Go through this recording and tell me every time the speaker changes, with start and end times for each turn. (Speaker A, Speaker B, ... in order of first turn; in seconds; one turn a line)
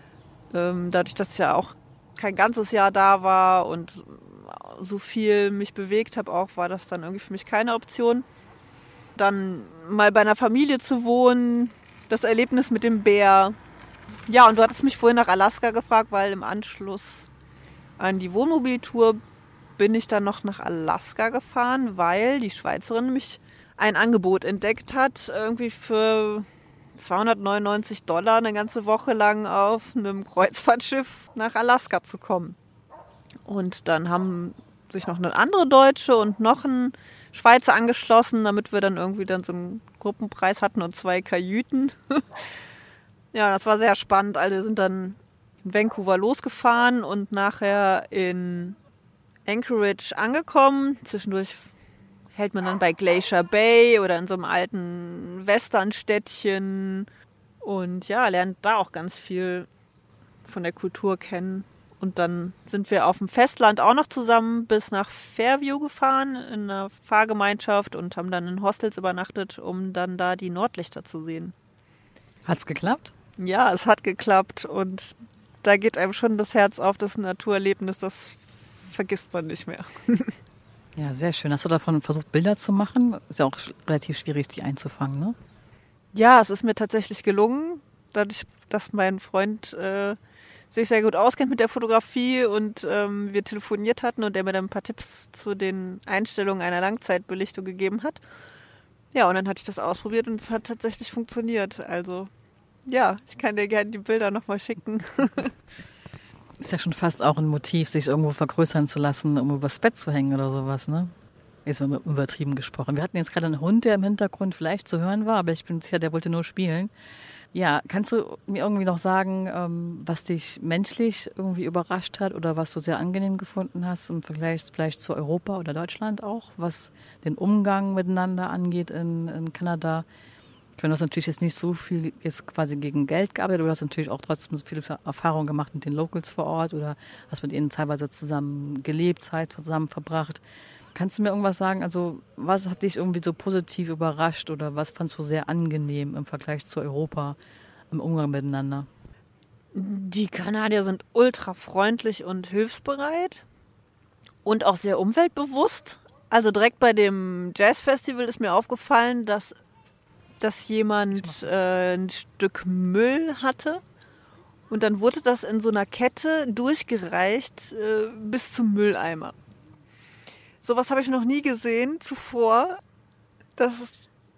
Speaker A: 0.5-8.2
Speaker A: 9.2-13.6
Speaker A: 14.3-17.3
Speaker A: 18.0-19.2
Speaker A: 19.8-32.6
Speaker A: 33.4-42.5
Speaker A: 43.3-48.8
Speaker A: 49.5-51.7
Speaker A: 52.3-57.1
Speaker A: 57.6-59.7
Speaker A: 60.4-71.5
Speaker B: 72.5-73.1
Speaker A: 73.4-80.4
Speaker B: 81.0-85.4
Speaker A: 86.1-90.2
Speaker A: 90.7-98.2
Speaker A: 99.1-102.3
Speaker A: 102.9-105.5
Speaker B: 106.6-111.1
Speaker B: 111.6-116.9
Speaker B: 117.5-130.1
Speaker B: 130.8-140.4
Speaker B: 140.9-147.4
Speaker B: 147.9-148.9
Speaker A: 149.7-153.4
Speaker A: 154.4-159.6
Speaker A: 160.4-163.8
Speaker A: 164.7-169.4
Speaker A: 170.6-172.8
Speaker A: 173.6-174.0